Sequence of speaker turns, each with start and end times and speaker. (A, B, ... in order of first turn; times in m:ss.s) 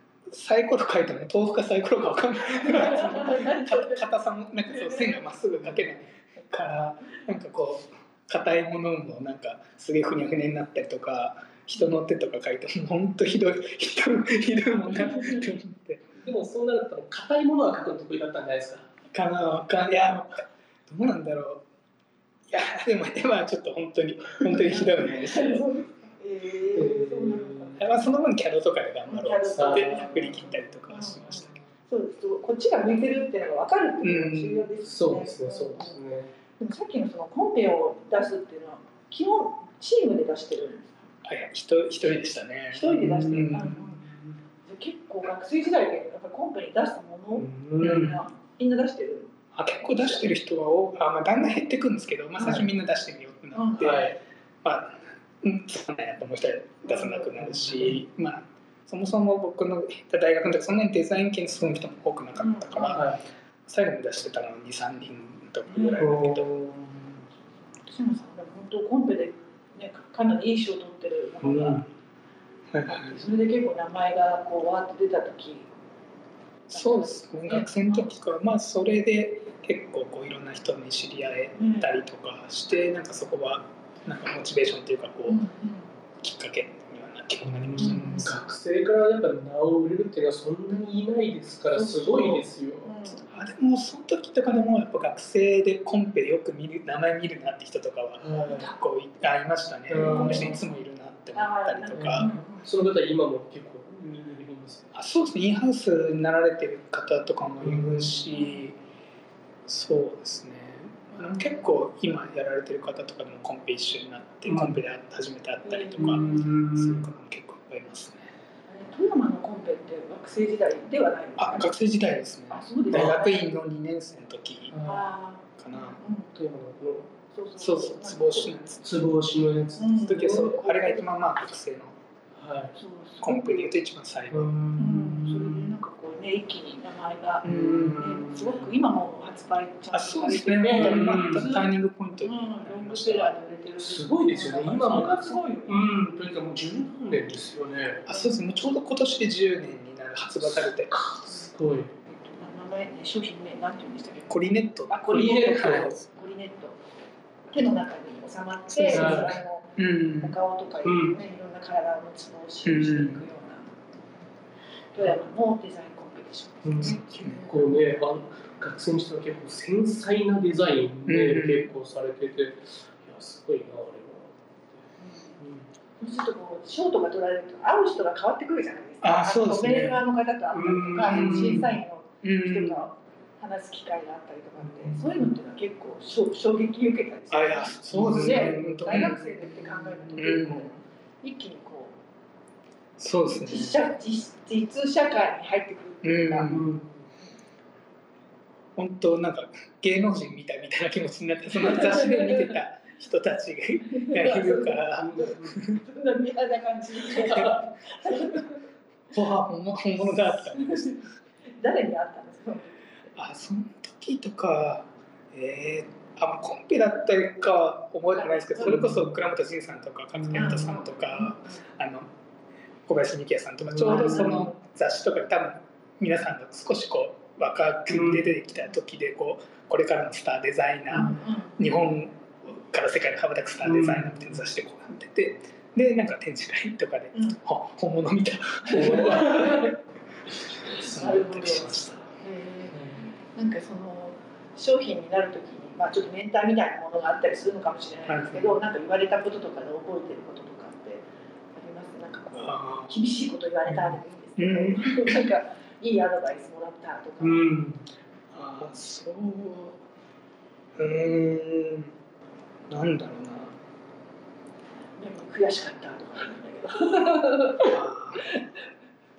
0:00.3-0:16.1 A
0:02.7-0:04.0 B
0:15.0-0:15.3 C
0:16.2-0:18.9 C
0:19.1-0:21.6 A
0:22.5-0:25.7 A
0:24.7-0:28.1 B
0:26.7-0:27.9 C
0:27.8-0:31.5 A
0:29.1-0:36.0 B
0:29.6-0:30.4 C
0:31.2-0:31.6 C
0:34.0-0:34.7 A
0:34.8-0:36.3 C
0:36.6-0:40.9 B
0:41.2-0:43.8 A
0:42.7-0:44.1 B
0:42.9-0:44.3 C
0:44.6-0:49.3 B
0:47.4-0:48.2 C
0:47.8-0:48.2 A
0:49.5-1:03.1 A
0:50.0-0:50.3 B
0:52.4-0:52.7 B
0:53.6-0:54.0 B
0:53.8-0:54.2 C
0:56.9-0:57.4 B
0:57.5-0:58.0 C
1:02.4-1:03.0 B
1:02.9-1:03.2 C
1:03.7-1:06.5 A
1:05.7-1:06.0 B
1:06.0-1:07.1 C
1:07.9-1:11.9 B
1:11.4-1:11.8 C
1:12.7-1:13.2 A
1:12.8-1:15.7 B
1:16.7-1:18.1 B
1:16.7-1:25.4 A
1:21.6-1:21.9 B
1:25.3-1:25.9 B
1:26.2-1:28.4 A
1:27.7-1:33.0 C
1:27.8-1:28.3 B
1:31.7-1:33.3 B
1:33.3-1:42.3 A
1:38.2-1:38.7 C
1:39.9-1:40.6 C
1:40.0-1:40.6 B
1:41.4-1:42.6 B
1:42.0-1:44.9 C
1:44.9-1:48.8 A
1:47.6-1:48.2 C
1:49.7-1:58.3 A
1:51.1-1:51.5 B
1:54.4-1:54.8 C
1:55.7-1:56.5 B
1:56.0-1:57.1 C
1:58.7-2:01.7 B
2:01.4-2:04.8 A
2:02.5-2:03.6 B
2:04.7-2:05.1 C
2:04.8-2:06.3 B
2:05.6-2:06.0 A
2:06.4-2:07.1 C
2:07.3-2:08.5 B
2:07.6-2:08.8 A
2:08.8-2:10.5 C
2:09.8-2:11.0 B
2:10.0-2:12.0 A
2:12.4-2:12.8 C
2:12.8-2:13.7 B
2:13.2-2:14.6 A
2:14.3-2:15.8 C
2:14.8-2:25.9 B
2:17.4-2:18.0 A
2:17.4-2:18.7 C
2:19.9-2:23.4 A
2:20.6-2:21.5 C
2:23.8-2:28.0 C
2:24.7-2:25.4 A
2:28.1-2:30.9 A
2:28.1-2:28.3 B
2:30.5-2:31.9 C
2:32.1-2:34.4 B
2:34.3-2:36.0 A
2:34.9-2:36.9 B
2:35.1-2:35.9 C
2:37.5-2:43.8 B
2:38.7-2:40.4 A
2:38.9-2:39.4 C
2:40.8-2:41.2 C
2:42.6-2:43.2 A
2:44.9-2:47.6 B
2:46.6-2:54.4 C
2:46.8-2:47.4 A
2:51.1-2:51.7 A
2:55.0-2:55.3 B
2:55.4-2:55.7 C
2:56.0-3:12.0 B
2:59.0-3:00.0 A
3:00.5-3:01.7 C
3:01.1-3:02.8 A
3:04.6-3:05.2 C
3:07.3-3:09.3 A
3:07.9-3:09.2 C
3:10.2-3:10.8 A
3:13.0-3:13.8 A
3:13.4-3:16.7 B
3:16.0-3:16.6 A
3:16.4-3:17.0 C
3:18.8-3:25.8 A
3:21.9-3:22.3 C
3:24.0-3:24.8 B
3:24.2-3:25.6 C
3:25.7-3:28.6 B
3:27.2-3:27.6 C
3:29.1-3:31.0 A
3:30.3-3:31.0 B
3:31.6-3:32.9 B
3:33.2-3:42.1 A
3:38.1-3:38.9 B
3:38.6-3:39.0 C
3:40.3-3:40.6 C
3:40.3-3:41.6 B
3:42.9-3:59.8 A
3:43.7-3:44.4 C
3:43.8-3:44.5 B
3:47.9-3:48.3 C
3:51.0-3:51.5 B
3:53.6-3:54.4 C
3:58.6-3:59.7 B
3:58.7-3:59.7 C
4:00.5-4:02.0 A
4:00.6-4:01.8 C
4:00.7-4:17.6 B
4:02.7-4:03.0 C
4:08.1-4:08.6 A
4:12.3-4:12.9 A
4:13.7-4:15.2 A
4:17.2-4:17.8 C
4:18.3-4:19.8 A
4:20.8-4:21.9 A
4:22.7-4:23.5 A
4:25.0-4:27.7 B
4:27.6-4:28.4 A